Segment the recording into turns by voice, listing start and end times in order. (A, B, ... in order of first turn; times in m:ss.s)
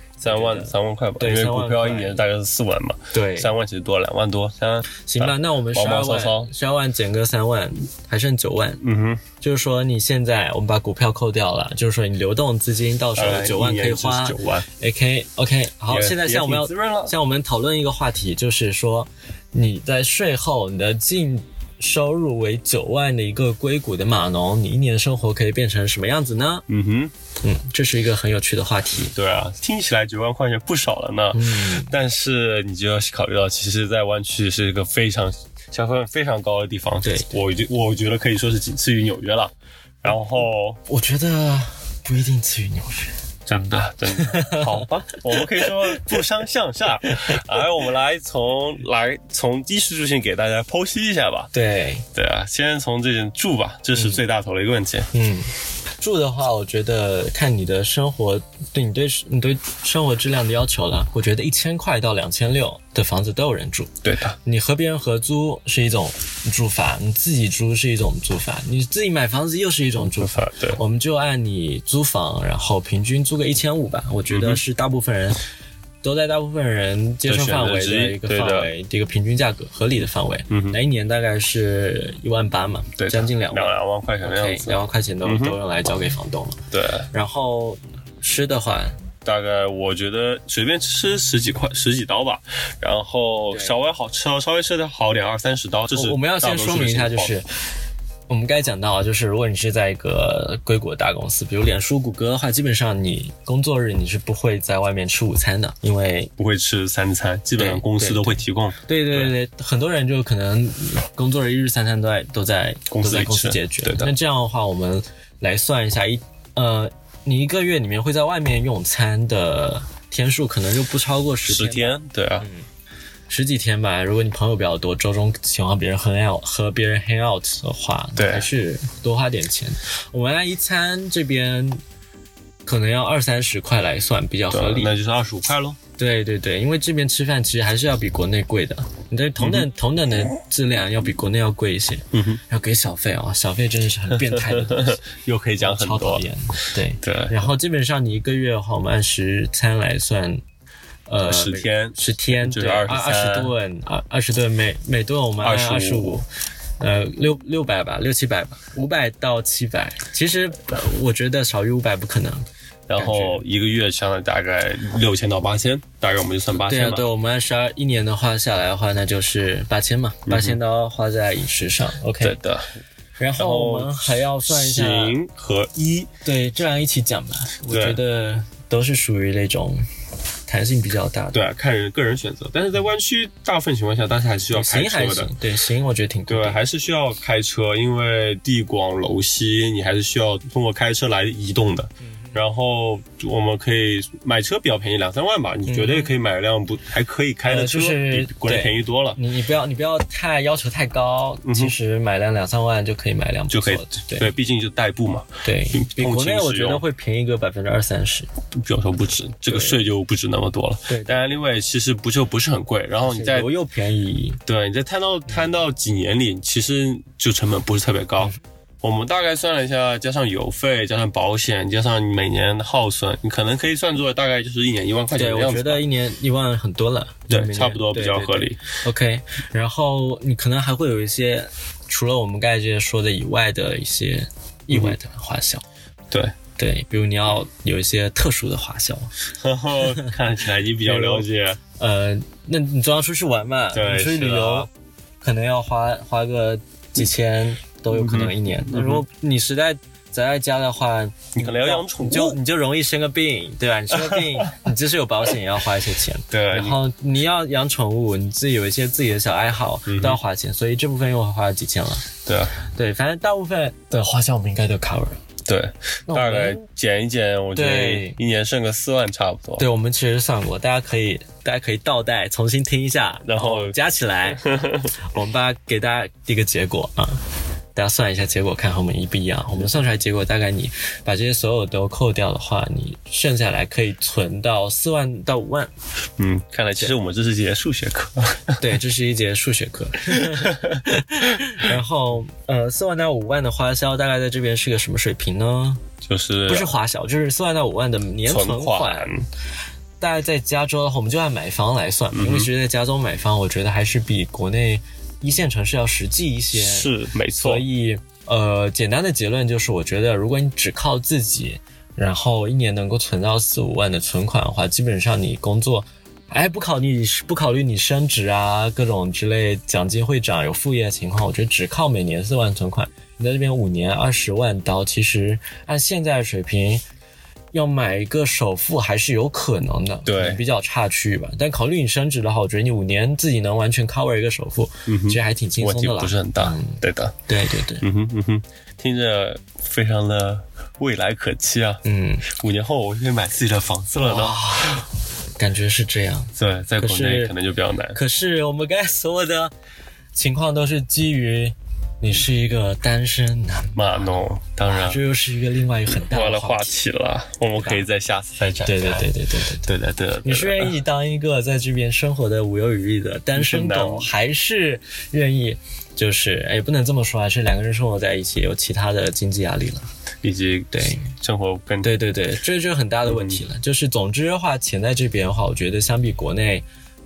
0:00.2-0:02.2 A
0:00.2-0:06.5 B
0:03.1-0:03.6 A
0:04.9-0:08.8 A
0:08.8-0:09.2 B
0:09.4-0:26.6 A
0:13.2-0:14.7 B
0:15.9-0:17.1 B
0:26.7-0:27.1 B
0:27.4-0:29.1 A
0:29.1-0:40.8 B
0:31.3-0:32.0 A
0:37.0-0:37.3 A
0:40.9-0:43.2 A
0:43.5-0:51.5 B
0:44.1-0:44.8 A
0:45.6-0:46.0 A
0:51.5-0:52.0 A
0:52.2-0:55.1 B
0:54.0-0:54.2 A
0:55.1-1:15.4 A
1:04.0-1:04.4 B
1:10.2-1:10.8 B
1:14.3-1:14.6 B
1:16.0-1:29.0 A
1:17.3-1:18.7 B
1:20.5-1:20.8 B
1:23.0-1:25.6 B
1:26.7-1:27.1 B
1:29.2-1:37.4 B
1:35.9-1:37.5 A
1:38.3-1:46.3 A
1:46.4-1:49.3 B
1:47.6-2:02.7 A
1:52.9-1:54.1 B
2:01.5-2:02.5 B
2:03.3-2:11.8 A
2:08.2-2:08.5 B
2:12.7-2:14.9 A
2:14.5-2:15.8 B
2:16.0-2:25.0 A
2:19.4-2:19.7 B
2:22.1-2:22.4 B
2:24.3-2:26.2 B
2:25.6-2:30.4 A
2:27.0-2:27.5 B
2:31.1-2:36.3 A
2:31.2-2:33.5 B
2:35.4-2:36.2 B
2:36.8-2:43.4 A
2:42.9-2:47.1 B
2:46.5-2:52.4 A
2:50.3-2:50.6 B
2:52.2-2:52.8 B
2:53.2-2:55.2 A
2:53.4-2:56.1 B
2:56.2-2:59.8 A
2:57.7-2:58.0 B
3:00.5-3:01.4 A
3:01.3-3:05.3 B
3:04.5-3:06.6 A
3:06.3-3:19.2 B
3:12.0-3:12.4 A
3:15.7-3:16.1 A
3:17.5-3:24.3 A
3:21.4-3:21.8 B
3:23.5-3:26.8 B
3:25.4-3:28.3 A
3:28.5-3:33.5 B
3:29.5-3:29.8 A
3:30.9-3:31.2 A
3:33.0-3:34.4 A
3:34.5-3:45.8 B
3:45.1-3:55.6 A
3:47.3-3:48.6 B
3:56.6-3:59.1 A
3:59.3-4:01.6 B
3:59.8-4:00.1 A
4:00.8-4:01.3 A
4:01.8-4:04.7 A
4:03.7-4:04.7 B
4:05.2-4:25.2 A
4:07.9-4:09.0 B
4:11.4-4:12.4 B
4:14.0-4:14.4 B
4:16.3-4:16.8 B
4:19.9-4:20.2 B
4:22.2-4:22.5 B
4:25.4-4:29.6 B
4:26.1-4:26.6 A
4:27.5-4:28.2 A
4:29.6-4:37.2 A
4:33.2-4:33.8 B
4:34.3-4:34.9 B
4:37.8-4:45.7 A
4:46.2-4:48.6 B
4:48.6-4:55.8 A
4:50.2-4:50.8 B
4:56.0-4:56.8 B
4:56.5-4:59.2 A
4:58.3-4:59.2 B
5:00.0-5:26.8 A
5:02.1-5:02.5 B
5:06.5-5:07.6 B
5:27.5-5:37.9 A
5:30.1-5:30.4 B
5:34.9-5:37.2 B
5:37.8-5:44.8 B
5:41.8-5:42.3 A
5:44.0-5:47.3 A
5:46.4-5:48.0 B
5:47.9-5:49.5 A
5:50.2-5:53.8 A
5:53.8-5:55.0 B
5:54.7-5:56.8 A
5:55.9-5:59.1 B
5:57.6-5:57.9 A
5:58.6-5:59.7 A
5:59.7-6:00.8 B
6:00.2-6:09.9 A
6:03.4-6:04.1 B
6:10.2-6:11.9 B
6:10.7-6:11.1 A
6:11.8-6:16.6 A
6:13.1-6:13.4 B